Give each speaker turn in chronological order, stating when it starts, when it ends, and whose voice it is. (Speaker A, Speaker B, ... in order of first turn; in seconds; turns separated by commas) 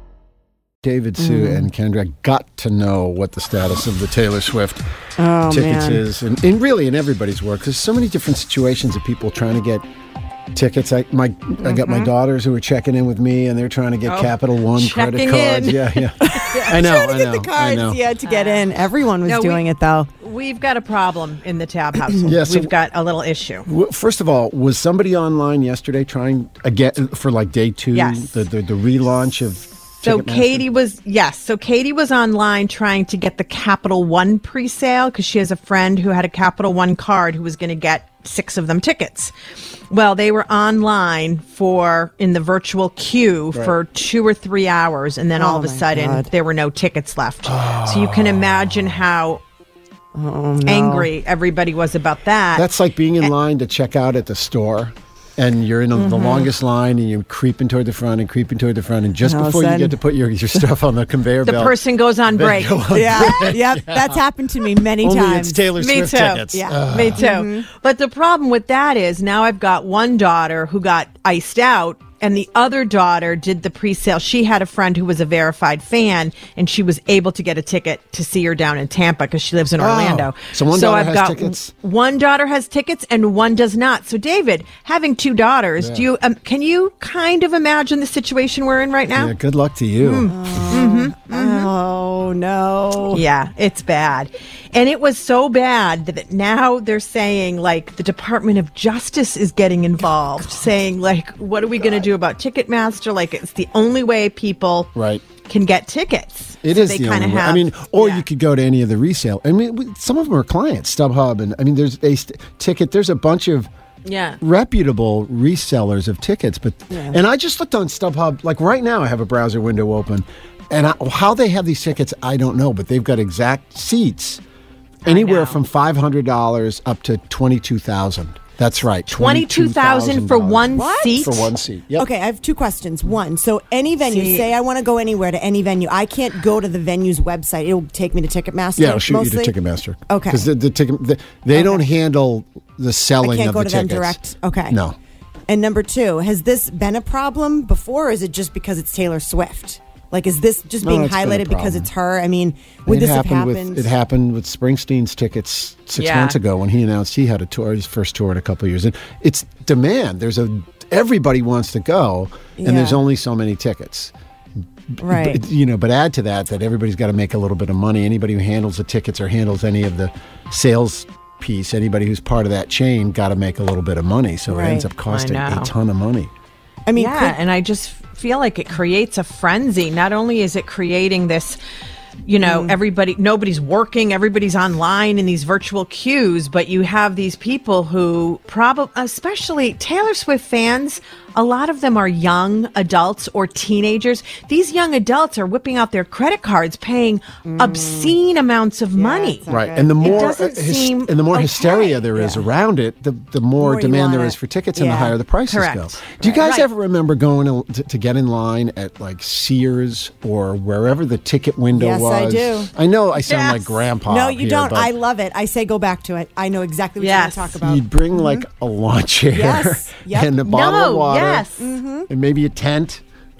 Speaker A: 0.8-4.8, Speaker B: 1.2-1.7, Speaker B: 5.2-6.0, Speaker A: 5.5-9.8, Speaker A: 10.5-18.0, Speaker C: 11.6-12.1, Speaker C: 14.0-16.7, Speaker B: 16.2-20.1, Speaker C: 18.2-19.6, Speaker C: 20.2-23.7, Speaker A: 22.2-22.7, Speaker A: 23.6-30.6, Speaker C: 27.9-28.4, Speaker C: 30.0-39.3, Speaker C: 39.9-49.4, Speaker B: 45.4-46.3, Speaker A: 47.5-48.7, Speaker B: 50.1-51.1, Speaker C: 50.6-52.7, Speaker A: 52.5-64.2, Speaker B: 56.0-56.5, Speaker B: 59.2-60.0, Speaker C: 61.5-63.4, Speaker B: 62.9-65.6, Speaker A: 65.0-67.2, Speaker C: 65.8-89.3, Speaker B: 66.5-67.7, Speaker A: 79.8-81.7, Speaker A: 85.8-86.1, Speaker A: 89.1-90.3, Speaker C: 90.0-91.7, Speaker B: 90.3-93.2, Speaker C: 93.1-104.9, Speaker A: 104.9-105.2, Speaker C: 105.4-108.2, Speaker A: 106.6-113.7, Speaker C: 114.0-114.4, Speaker A: 114.4-124.4, Speaker C: 125.0-125.6, Speaker A: 125.0-132.1, Speaker C: 129.1-131.5, Speaker B: 130.7-131.3, Speaker B: 131.9-139.5, Speaker C: 134.0-134.5, Speaker A: 138.8-144.2, Speaker B: 140.1-140.5, Speaker B: 141.5-141.8, Speaker B: 143.2-144.8, Speaker A: 144.7-144.9, Speaker B: 145.5-153.9, Speaker A: 150.8-151.9, Speaker A: 152.9-164.1, Speaker C: 155.9-156.4, Speaker B: 162.6-163.0, Speaker A: 165.0-176.3, Speaker B: 165.0-165.4, Speaker B: 174.5-174.9, Speaker C: 175.1-175.7, Speaker B: 176.8-177.4, Speaker C: 176.9-181.6, Speaker C: 182.2-199.4, Speaker B: 182.4-182.8, Speaker B: 197.4-198.2, Speaker B: 198.9-200.3, Speaker A: 199.5-214.9, Speaker C: 200.0-202.1, Speaker B: 202.1-202.4, Speaker B: 203.6-205.1, Speaker C: 205.5-206.7, Speaker B: 211.7-212.7, Speaker C: 213.1-213.9, Speaker B: 214.1-218.4, Speaker C: 217.0-217.6, Speaker A: 217.6-221.5, Speaker B: 219.3-220.3, Speaker C: 220.4-221.7, Speaker B: 221.6-222.1, Speaker A: 222.1-223.0